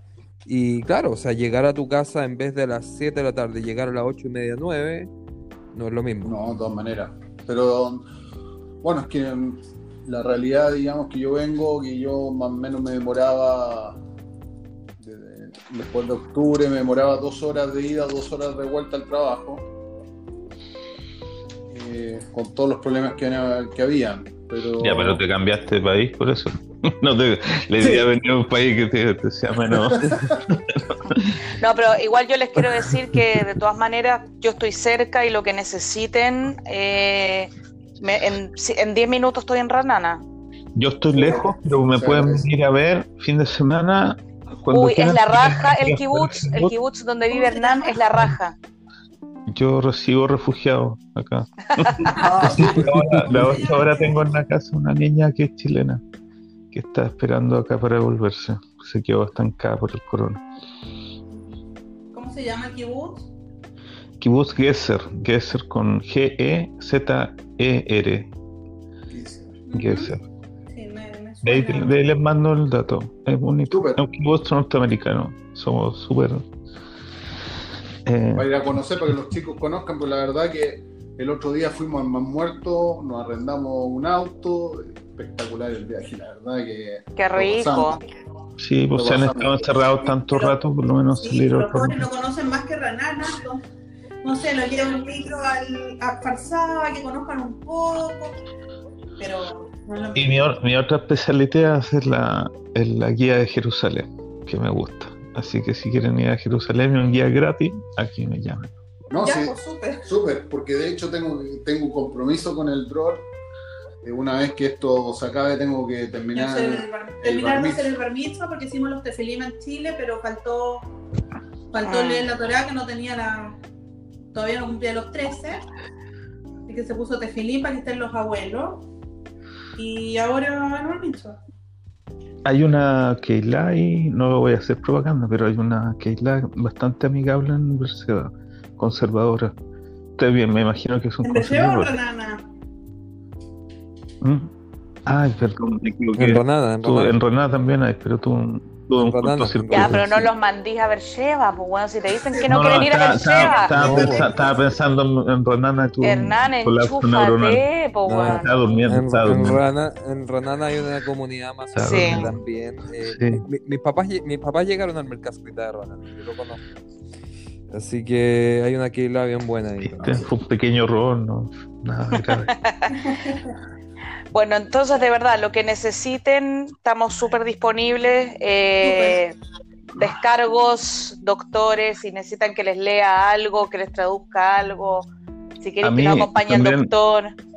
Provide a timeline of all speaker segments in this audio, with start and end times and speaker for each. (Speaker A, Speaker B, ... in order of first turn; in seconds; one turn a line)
Speaker A: 0.5-5.1
Speaker A: 5.7-6.3
Speaker B: 6.2-8.1
Speaker B: 8.8-14.0
Speaker B: 15.0-19.6
Speaker B: 21.7-25.2
Speaker C: 24.8-31.3
Speaker B: 27.8-28.1
Speaker B: 29.7-30.4
Speaker D: 31.6-40.2
Speaker C: 32.6-33.2
Speaker C: 40.8-46.7
Speaker B: 41.1-42.5
Speaker D: 44.7-48.6
Speaker E: 47.3-48.0
Speaker C: 49.5-56.0
Speaker B: 52.1-53.9
Speaker E: 52.1-54.1
Speaker C: 56.7-60.4
Speaker E: 62.1-63.3
Speaker C: 64.2-68.3
Speaker B: 69.1-69.6
Speaker E: 69.7-70.1
Speaker C: 69.8-70.2
Speaker E: 70.7-72.0
Speaker C: 71.4-76.5
Speaker B: 73.7-74.1
Speaker C: 78.1-78.5
Speaker B: 78.3-88.0
Speaker D: 87.2-88.0
Speaker C: 88.6-92.1
Speaker B: 88.9-89.6
Speaker E: 90.3-90.5
Speaker E: 91.1-93.6
Speaker E: 94.2-98.4
Speaker E: 99.2-100.4
Speaker C: 100.1-108.7
Speaker B: 109.1-113.3
Speaker E: 109.2-110.1
Speaker B: 114.0-117.9
Speaker E: 116.3-120.9
Speaker E: 121.7-123.6
Speaker D: 121.9-122.3
Speaker E: 124.3-125.6
Speaker E: 126.7-128.9
Speaker E: 129.8-131.4
Speaker C: 132.4-139.6
Speaker C: 140.2-142.0
Speaker E: 141.2-142.5
Speaker C: 144.2-144.5
Speaker C: 145.1-150.3
Speaker A: 146.2-147.2
Speaker A: 149.0-150.1
Speaker D: 149.7-154.6
Speaker E: 152.3-153.5
Speaker C: 152.5-157.6
Speaker A: 153.7-154.3
Speaker D: 156.0-158.5
Speaker A: 158.1-166.8
Speaker C: 158.3-159.6
Speaker C: 161.8-162.3
Speaker D: 161.8-162.2
Speaker C: 163.0-163.4
Speaker A: 167.7-170.3
Speaker C: 169.8-172.5
Speaker B: 170.0-170.3
Speaker D: 172.3-173.0
Speaker E: 173.1-173.5
Speaker D: 174.3-179.3
Speaker E: 178.8-179.2
Speaker D: 180.0-185.1
Speaker D: 185.6-187.3
Speaker C: 185.8-186.9